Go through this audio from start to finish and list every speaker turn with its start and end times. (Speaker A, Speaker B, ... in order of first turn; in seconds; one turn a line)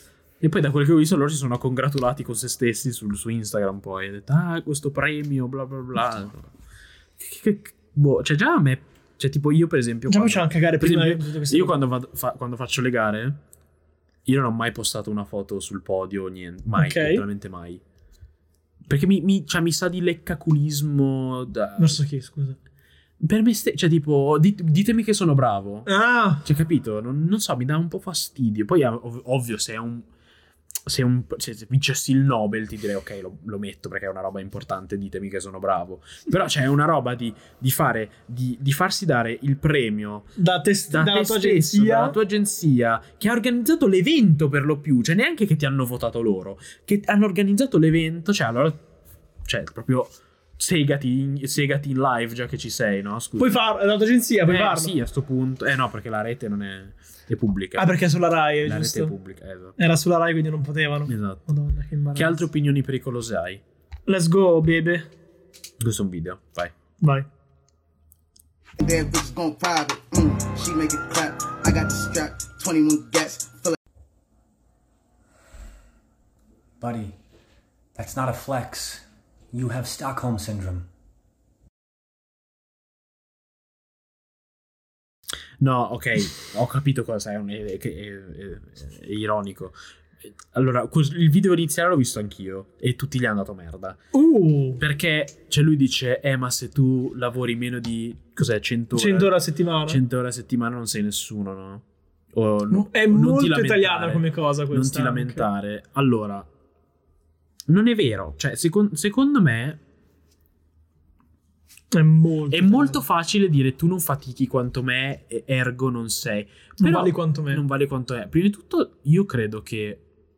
Speaker A: 0.4-6.5
Speaker A: 7.2-13.4
Speaker B: 10.1-11.8
Speaker A: 14.3-17.8
Speaker B: 16.8-17.2
Speaker A: 18.9-22.0
Speaker B: 21.8-22.6
Speaker A: 23.2-25.9
Speaker B: 25.9-26.5
Speaker A: 26.4-30.1
Speaker A: 30.9-40.3
Speaker B: 40.4-42.2
Speaker A: 40.9-48.8
Speaker A: 49.5-53.6
Speaker B: 53.4-54.9
Speaker A: 54.5-58.0
Speaker B: 57.8-59.1
Speaker A: 58.6-59.8
Speaker B: 59.8-62.4
Speaker A: 61.1-61.5
Speaker A: 62.1-63.6
Speaker B: 64.1-65.1
Speaker A: 65.8-66.7
Speaker B: 67.0-67.3
Speaker C: 68.8-73.8
Speaker D: 76.8-77.2
Speaker D: 77.9-80.9
Speaker A: 85.6-89.8
Speaker A: 90.5-94.0
Speaker B: 94.1-94.8
Speaker A: 94.8-99.3
Speaker B: 98.9-100.0
Speaker A: 99.9-106.5
Speaker B: 102.7-105.5
Speaker A: 107.7-109.8
Speaker B: 111.9-113.0
Speaker A: 112.5-120.0
Speaker B: 116.8-117.6